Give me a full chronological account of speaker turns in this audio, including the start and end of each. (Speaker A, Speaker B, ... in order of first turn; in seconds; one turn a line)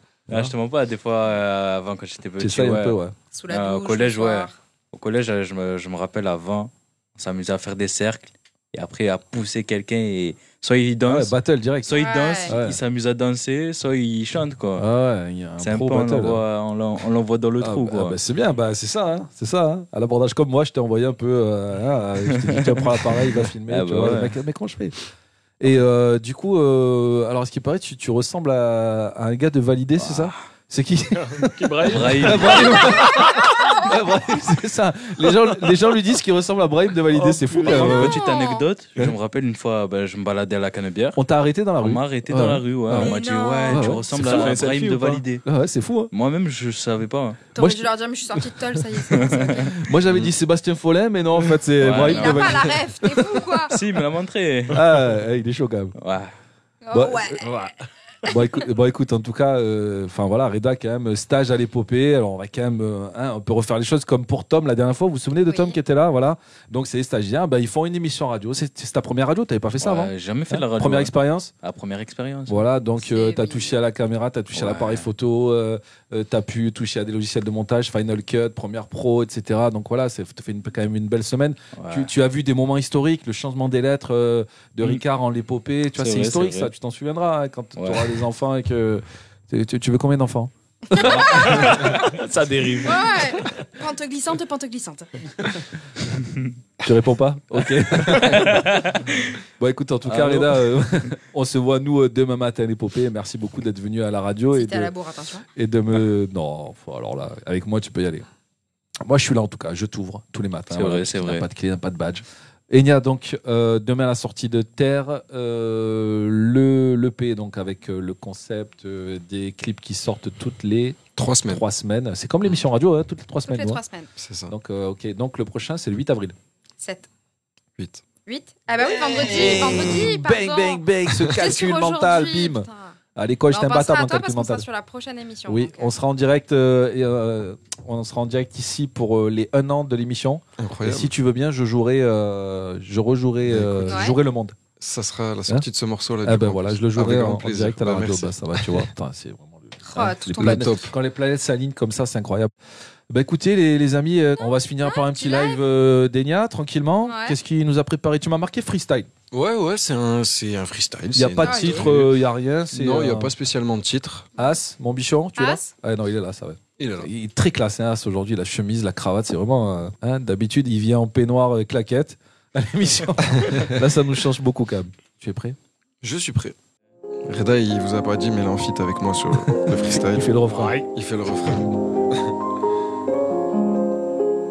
Speaker A: 0.3-0.5
Speaker B: 0.3-11.3
Speaker A: 2.4-3.1
Speaker C: 3.3-4.5
Speaker A: 11.1-12.8
Speaker C: 11.9-12.6
Speaker B: 11.9-14.9
Speaker A: 14.8-16.4
Speaker B: 15.6-18.2
Speaker A: 17.6-25.0
Speaker B: 22.3-22.9
Speaker B: 23.7-24.4
Speaker A: 25.6-38.2
Speaker B: 30.0-30.4
Speaker D: 31.2-33.5
Speaker B: 31.9-32.9
Speaker D: 37.1-38.1
Speaker B: 37.6-41.2
Speaker C: 37.7-38.7
Speaker A: 41.1-44.1
Speaker B: 41.8-45.4
Speaker C: 43.0-44.0
Speaker D: 44.1-45.2
Speaker A: 45.4-46.1
Speaker B: 46.1-47.4
Speaker C: 47.5-49.8
Speaker A: 47.6-47.9
Speaker A: 49.1-53.3
Speaker B: 49.2-49.5
Speaker B: 51.8-52.5
Speaker C: 51.9-53.8
Speaker B: 53.7-54.9
Speaker A: 54.7-56.0
Speaker B: 56.0-56.3
Speaker C: 56.8-57.5
Speaker A: 56.9-57.4
Speaker D: 57.4-57.7
Speaker A: 58.2-71.5
Speaker C: 65.5-65.8
Speaker B: 69.8-72.7
Speaker A: 72.5-92.1
Speaker C: 73.0-73.7
Speaker B: 74.5-75.1
Speaker B: 81.8-82.1
Speaker B: 86.0-86.7
Speaker B: 87.8-88.2
Speaker C: 90.9-91.7
Speaker D: 91.5-93.1
Speaker C: 92.8-95.5
Speaker A: 96.8-104.9
Speaker B: 97.6-99.0
Speaker B: 100.0-100.7
Speaker C: 104.5-105.5
Speaker A: 105.5-108.3
Speaker A: 109.0-123.8
Speaker B: 110.7-111.5
Speaker E: 121.2-121.6
Speaker C: 123.5-124.1
Speaker E: 124.2-124.5
Speaker A: 124.5-126.4
Speaker C: 126.8-127.1
Speaker E: 127.8-128.0
Speaker C: 128.3-130.8
Speaker A: 128.9-134.7
Speaker C: 131.3-132.9
Speaker C: 133.5-135.9
Speaker A: 135.5-144.6
Speaker E: 140.6-141.1
Speaker E: 143.5-144.1
Speaker C: 143.9-144.2
Speaker E: 144.8-148.8
Speaker A: 146.2-152.5
Speaker C: 149.9-150.8
Speaker E: 150.4-150.9
Speaker A: 153.1-159.1
Speaker C: 154.8-155.6
Speaker C: 157.1-157.4
Speaker E: 159.3-162.2
Speaker A: 161.1-163.3
Speaker C: 161.4-161.9
Speaker E: 162.7-164.3
Speaker A: 164.4-175.6
Speaker C: 165.4-165.7
Speaker E: 166.8-167.1
Speaker E: 176.0-176.6
Speaker E: 177.3-180.3
Speaker A: 180.1-180.8
Speaker D: 180.6-180.8
Speaker E: 180.9-181.8